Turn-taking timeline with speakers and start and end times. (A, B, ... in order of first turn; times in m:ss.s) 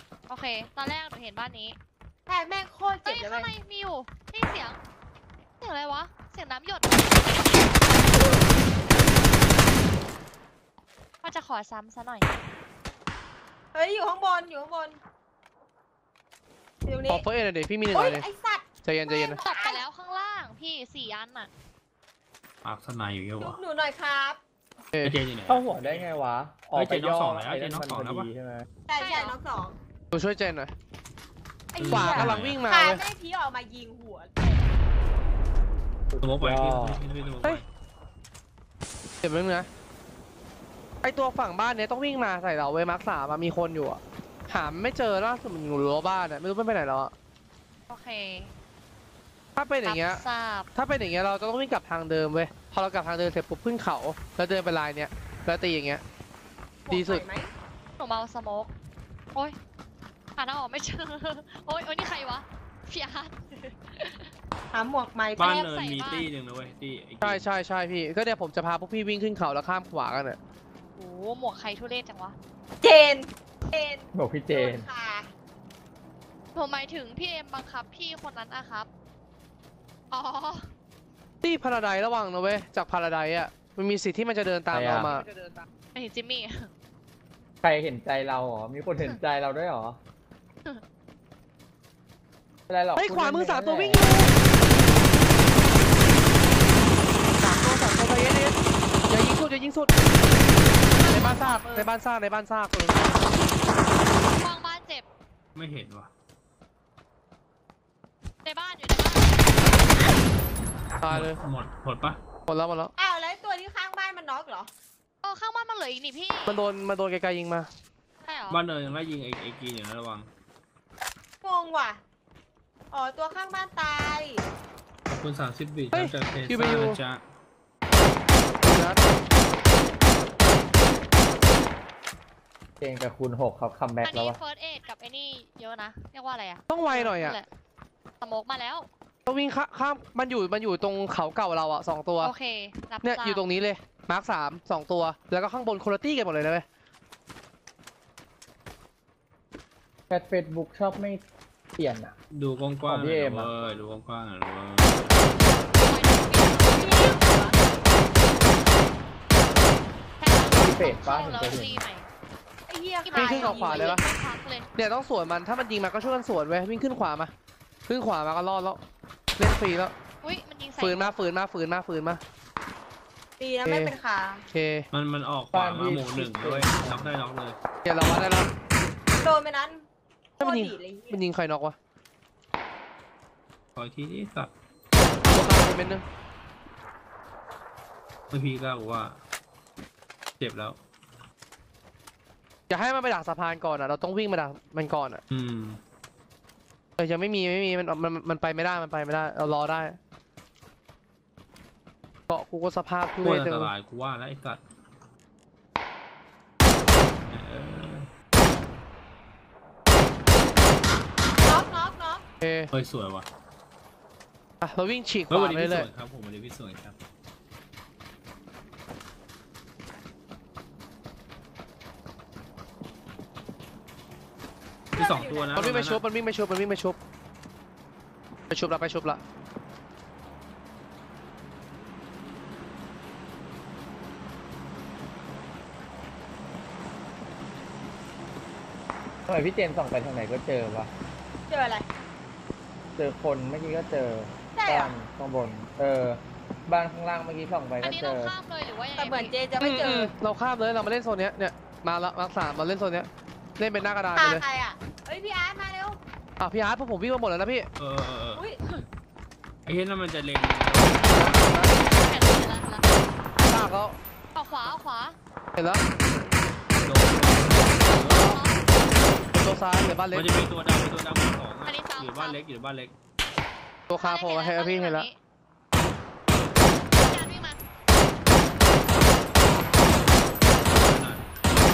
0:00.3-0:01.8 A
0:02.3-0:03.5 B
0:03.0-0:04.8 A
0:05.6-0:07.4 A
0:08.1-0:08.4 B
0:11.2-0:12.3 A
0:13.7-0:15.0 B
0:16.8-0:17.2 B
0:17.1-0:18.2 C
0:17.9-0:19.8 B
0:18.8-0:19.4 C
0:19.4-0:21.5 A
0:22.6-0:23.6 D
0:23.4-0:24.4 B
0:25.0-0:26.1 D
0:25.5-0:28.7 E
0:26.7-0:28.3 D
0:28.9-0:29.8 B
0:29.0-0:29.4 A
0:30.1-0:30.7 C
0:31.7-0:34.6 B
0:31.8-0:32.7 D
0:31.9-0:33.0 C
0:36.1-0:37.0 E
0:36.2-0:37.6 D
0:39.2-0:39.7 C
0:41.0-0:47.1 C
0:47.9-0:48.5 A
0:49.6-0:50.2 C
0:49.8-0:50.7 A
0:50.7-0:56.0 C
0:56.8-0:57.5 B
0:56.9-0:57.2 C
0:58.0-0:58.7 A
1:00.4-1:04.3 A
1:04.7-1:05.7 B
1:05.4-1:07.4 D
1:05.4-1:06.3 A
1:07.2-1:10.4 C
1:11.0-1:12.4 A
1:12.8-1:15.3 B
1:14.1-1:14.9 E
1:16.5-1:18.9 A
1:20.1-1:20.7 A
1:21.4-1:25.3 C
1:24.7-1:25.2 E
1:25.9-1:26.7 A
1:27.6-1:30.0 E
1:32.7-1:34.2 E
1:33.0-1:34.3 C
1:37.4-1:38.6 C
1:39.1-1:39.9 C
1:40.9-1:41.9 B
1:41.1-1:41.5 A
1:41.1-1:43.2 C
1:44.4-1:45.0 A
1:45.5-1:46.1 D
1:48.4-1:49.4 A
1:51.0-1:51.4 C
1:51.1-1:52.2 D
1:52.5-1:52.9 C
1:53.0-1:54.7 B
1:55.2-1:56.6 A
1:56.5-1:57.7 C
1:58.2-1:58.6 A
1:58.5-2:00.3 D
2:01.4-2:02.0 B
2:02.9-2:04.4 B
2:05.1-2:07.2 D
2:05.9-2:07.0 C
2:08.6-2:09.0 C
2:12.8-2:14.4 E
2:14.0-2:17.4 A
2:16.7-2:17.4 C
2:18.2-2:18.9 A
2:19.2-2:22.3 C
2:22.2-2:23.4 A
2:23.0-2:26.6 C
2:30.1-2:31.2 E
2:31.8-2:32.1 E
2:32.3-2:35.3 D
2:32.8-2:33.5 E
2:35.7-2:37.2 A
2:36.7-2:37.6 B
2:40.2-2:42.1 A
2:40.6-2:41.8 E
2:41.0-2:41.5 B
2:42.7-2:44.0 B
2:43.0-2:44.7 A
2:43.1-2:44.0 C
2:44.7-2:47.3 C
2:47.8-2:48.8 C
2:49.4-2:49.9 C
2:50.2-2:51.1 A
2:50.8-2:52.2 C
2:53.4-2:54.4 B
2:53.6-2:53.9 C
2:54.5-2:54.9 C
2:54.9-2:57.6 D
2:55.5-2:57.1 E
2:57.8-2:58.5 C
2:59.1-2:59.8 B
3:00.4-3:01.2 B
3:00.4-3:01.8 C
3:03.7-3:04.5 D
3:05.2-3:06.0 C
3:08.3-3:09.2 D
3:10.4-3:10.8 D
3:12.7-3:15.2 C
3:15.3-3:15.8 D
3:17.0-3:20.0 C
3:22.3-3:23.7 C
3:23.2-3:24.6 D
3:27.3-3:28.1 D
3:31.4-3:32.2 B
3:32.4-3:32.7 C
3:32.7-3:33.3 D
3:34.6-3:35.9 C
3:35.3-3:37.0 D
3:44.9-3:45.6 B
3:45.0-3:46.0 D
3:45.5-3:47.0 C
3:48.5-3:49.2 C
3:59.3-4:00.9 E
4:01.5-4:01.9 B
4:03.0-4:08.3 E
4:04.5-4:04.9 B
4:07.8-4:09.3 A
4:09.0-4:10.1 B
4:09.6-4:14.4 C
4:14.1-4:16.0 B
4:16.4-4:17.7 C
4:17.8-4:18.4 D
4:19.6-4:21.8 D
4:21.1-4:21.7 C
4:21.7-4:23.2 A
4:23.5-4:24.0 C
4:24.3-4:25.2 A
4:25.6-4:25.8 C
4:26.8-4:28.4 D
4:27.8-4:28.6 A
4:29.3-4:30.3 C
4:30.1-4:32.9 D
4:31.6-4:32.4 A
4:33.9-4:35.1 C
4:33.9-4:35.2 A
4:37.0-4:37.6 A
4:40.7-4:41.2 D